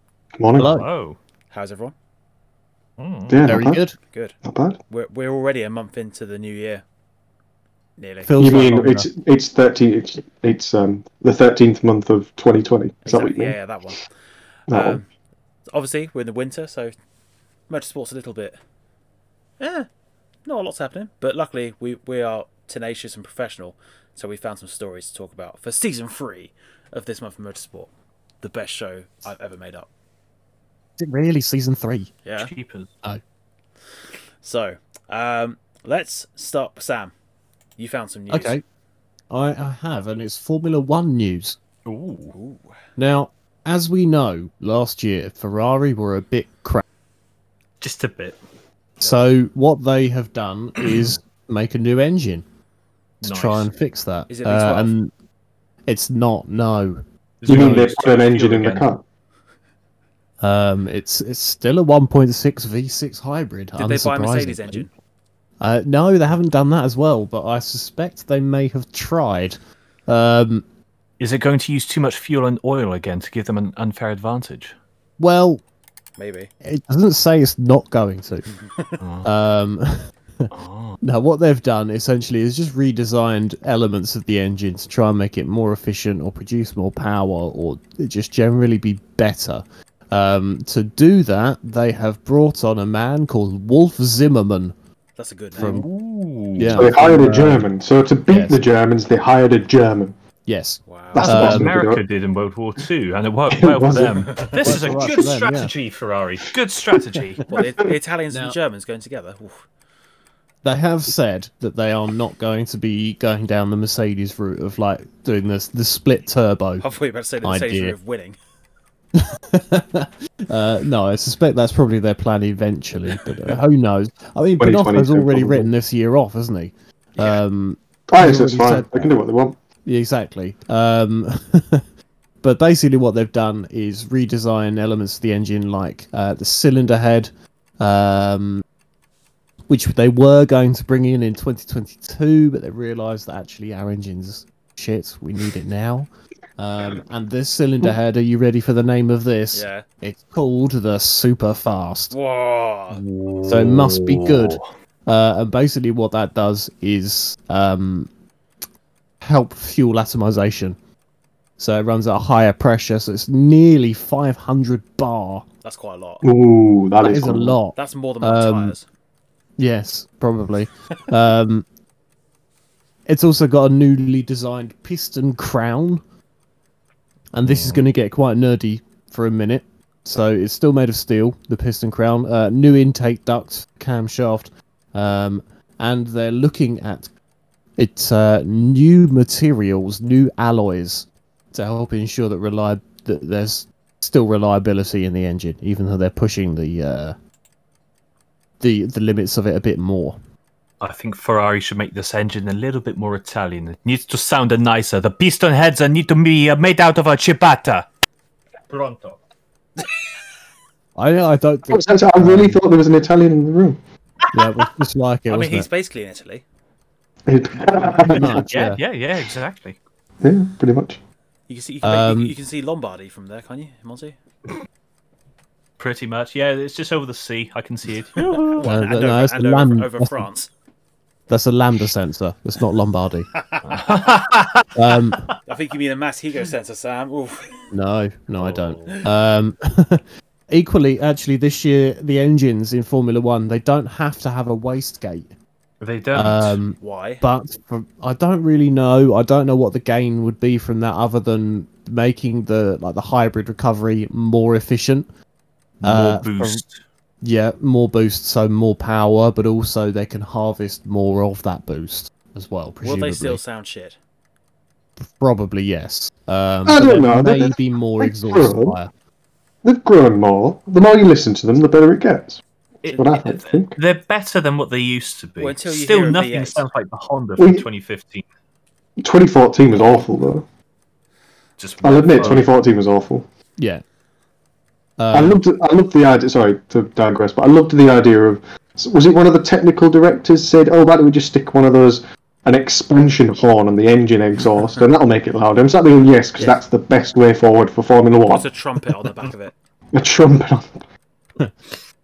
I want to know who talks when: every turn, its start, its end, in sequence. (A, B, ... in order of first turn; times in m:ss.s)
0:00.4-0:00.7 A
0:00.6-0:00.9 B
0:00.6-0:01.2 C
0:01.5-0:01.9 D
0:03.0-0:03.4 C
0:03.3-0:03.8 A
0:03.5-0:04.0 B
0:04.0-0:04.4 D
0:04.4-0:04.8 A
0:04.9-0:06.8 D
0:08.0-0:08.4 D
0:08.2-0:09.1 B
0:08.4-0:13.6 A
0:13.0-0:14.0 D
0:14.7-0:15.0 A
0:14.7-0:15.1 D
0:15.7-0:17.0 D
0:17.7-0:18.6 D
0:19.6-0:19.9 D
0:20.4-0:27.9 D
0:28.4-0:29.9 D
0:31.0-0:32.1 B
0:32.2-0:32.5 D
0:32.4-0:32.9 C
0:34.4-0:37.1 D
0:37.8-0:38.6 D
0:38.3-0:38.6 B
0:39.3-0:41.6 B
0:41.9-0:42.3 C
0:42.3-0:42.8 D
0:43.0-0:46.8 B
0:47.8-0:48.4 C
0:49.0-0:52.4 B
0:53.2-0:55.1 B
0:53.2-0:53.7 C
0:54.3-0:54.9 D
0:55.9-0:57.9 B
0:57.4-0:58.9 C
0:57.5-0:59.0 A
1:00.4-1:04.9 B
1:03.8-1:04.9 D
1:05.6-1:10.6 B
1:11.2-1:14.8 C
1:15.2-1:15.6 B
1:16.2-1:16.5 D
1:16.6-1:18.5 B
1:18.6-1:19.0 D
1:19.0-1:19.3 C
1:19.2-1:20.5 B
1:20.5-1:21.0 C
1:21.0-1:34.7 B
1:35.2-1:35.8 D
1:35.6-1:35.9 B
1:35.6-1:37.0 C
1:36.6-1:37.7 B
1:36.8-1:40.1 A
1:38.3-1:38.6 B
1:40.5-1:41.7 B
1:40.9-1:41.3 D
1:41.1-1:42.0 A
1:41.2-1:47.4 C
1:43.5-1:44.3 A
1:44.2-1:45.1 D
1:44.6-1:45.7 B
1:47.5-1:49.6 D
1:48.3-1:48.6 B
1:50.6-1:56.8 B
1:56.8-1:58.4 D
1:57.4-1:58.0 B
1:59.2-2:09.1 B
2:04.6-2:05.7 A
2:08.1-2:09.6 A
2:09.8-2:11.8 B
2:12.4-2:18.6 B
2:19.7-2:32.1 B
2:29.5-2:29.8 D
2:32.1-2:33.0 D
2:32.9-2:34.6 C
2:33.5-2:38.1 B
2:39.2-2:40.8 B
2:41.6-2:45.4 B
2:45.6-2:46.2 D
2:46.2-2:47.6 A
2:47.0-2:48.8 B
2:47.8-2:48.8 D
2:49.6-2:51.7 B
2:53.1-2:56.0 B
2:57.3-3:07.1 B
2:57.5-2:57.8 C
3:07.8-3:17.2 B
3:18.6-3:20.2 B
3:20.8-3:27.9 C
3:28.7-3:29.2 C
3:31.0-3:32.6 B
3:31.7-3:33.8 A
3:34.3-3:35.7 B
3:35.3-3:36.4 D
3:37.3-3:38.4 A
3:38.1-3:38.8 B
3:38.5-3:39.8 C
3:40.2-3:41.0 A
3:41.5-3:44.2 D
3:41.8-3:42.4 B
3:45.8-3:48.6 C
3:48.3-3:50.5 D
3:48.6-3:50.3 B
3:51.3-3:53.3 B
3:53.4-3:54.0 D
3:53.7-3:55.3 C
3:54.8-3:55.3 B
3:55.5-3:57.7 D
3:57.7-4:05.3 B
3:58.4-3:58.9 C
4:05.8-4:06.6 C
4:06.1-4:15.1 B
4:06.8-4:07.2 D
4:15.8-4:16.6 B
4:15.8-4:16.8 C
4:17.2-4:23.4 B
4:22.8-4:24.0 D
4:25.0-4:28.9 B
4:26.7-4:28.8 A
4:29.6-4:33.8 A
4:32.8-4:38.3 C
4:35.4-4:36.7 D
4:37.4-4:37.6 A
4:39.0-4:40.4 A
4:41.6-4:42.5 C
4:41.8-4:43.3 A
4:43.6-4:43.8 B
4:45.0-4:45.4 B
4:45.1-4:58.5 A
4:58.3-4:59.5 D
4:59.9-5:00.8 A